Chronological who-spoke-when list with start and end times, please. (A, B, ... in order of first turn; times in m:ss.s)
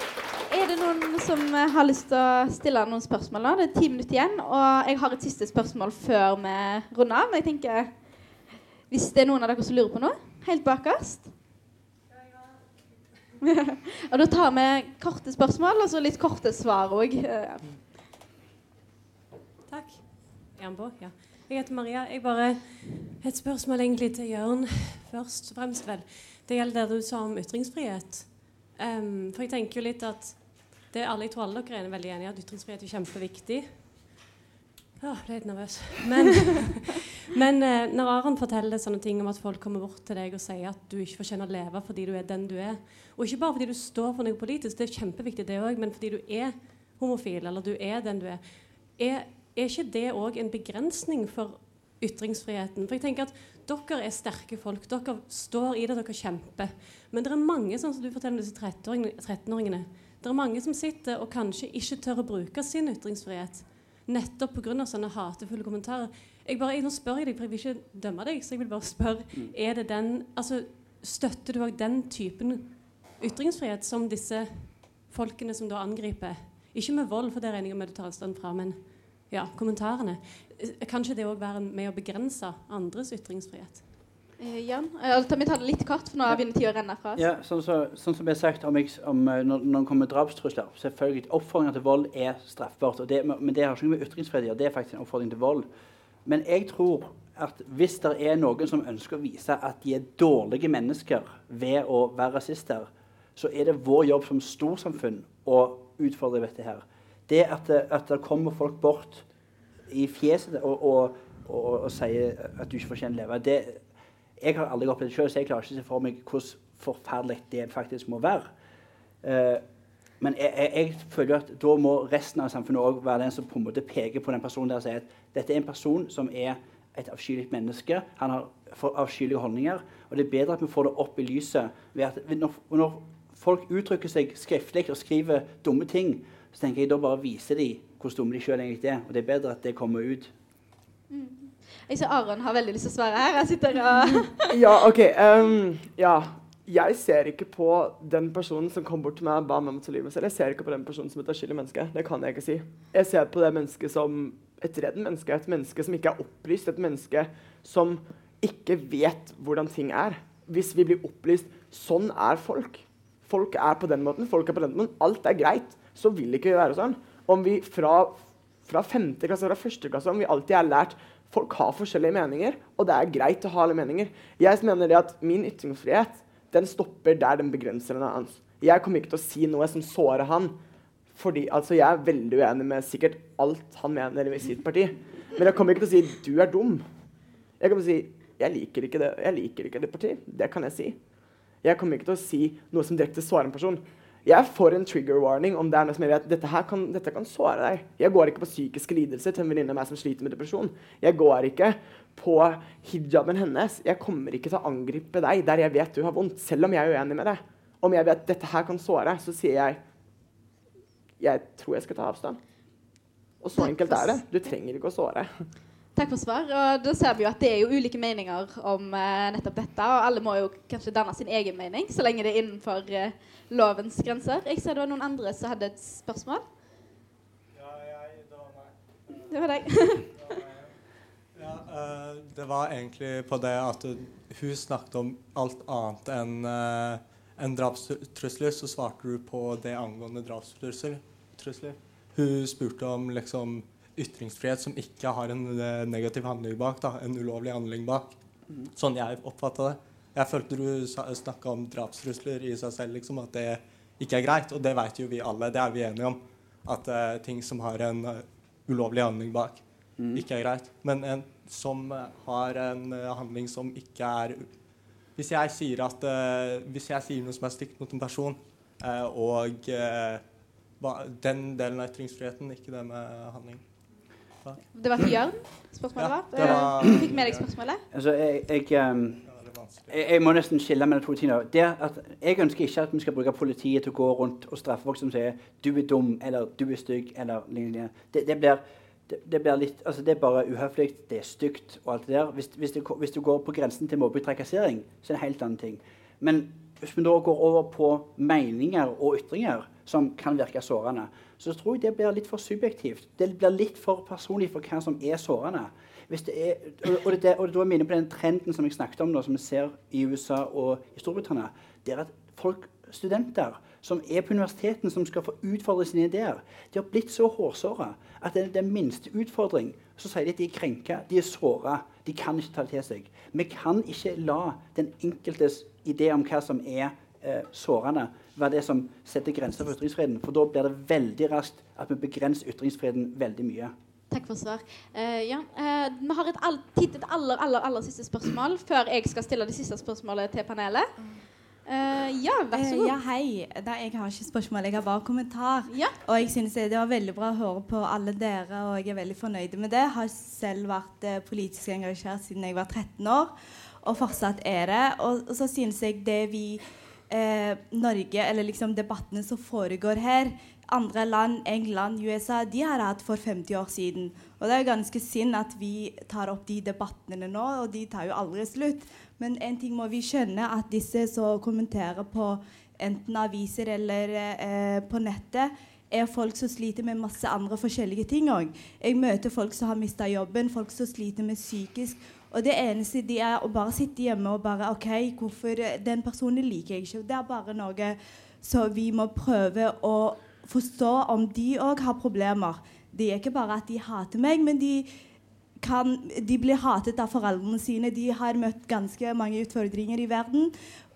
0:00.5-0:07.9 A
0:08.9-0:11.3 A
0:13.4-0:17.8 A
0:19.7-0:33.9 B
0:35.0-1:23.8 B
1:24.4-1:27.2 A
1:27.2-1:35.7 C
1:36.2-1:49.2 C
1:49.9-1:53.8 C
1:54.4-1:58.5 C
1:59.2-1:59.6 C
2:00.2-2:20.3 C
2:21.1-2:24.5 A
2:24.5-3:00.6 D
3:01.1-3:06.8 D
3:07.6-3:11.0 D
3:11.6-3:29.8 D
3:31.2-3:32.4 D
3:33.4-3:35.5 D
3:33.6-3:34.1 A
3:36.0-3:46.4 A
3:47.5-3:50.7 E
3:49.3-3:50.3 A
3:51.4-4:08.1 E
4:08.7-4:24.5 E
4:20.0-4:20.2 C
4:25.2-4:30.2 E
4:30.8-4:33.6 E
4:34.7-4:37.8 A
4:36.0-4:37.5 E
4:36.4-4:37.1 C
4:37.9-4:39.3 C
4:39.3-4:39.9 E
4:39.9-5:33.7 C
5:34.1-5:41.0 A
5:41.6-5:43.0 A
5:42.5-6:34.9 F
5:45.7-5:46.0 A
6:35.6-6:40.6 F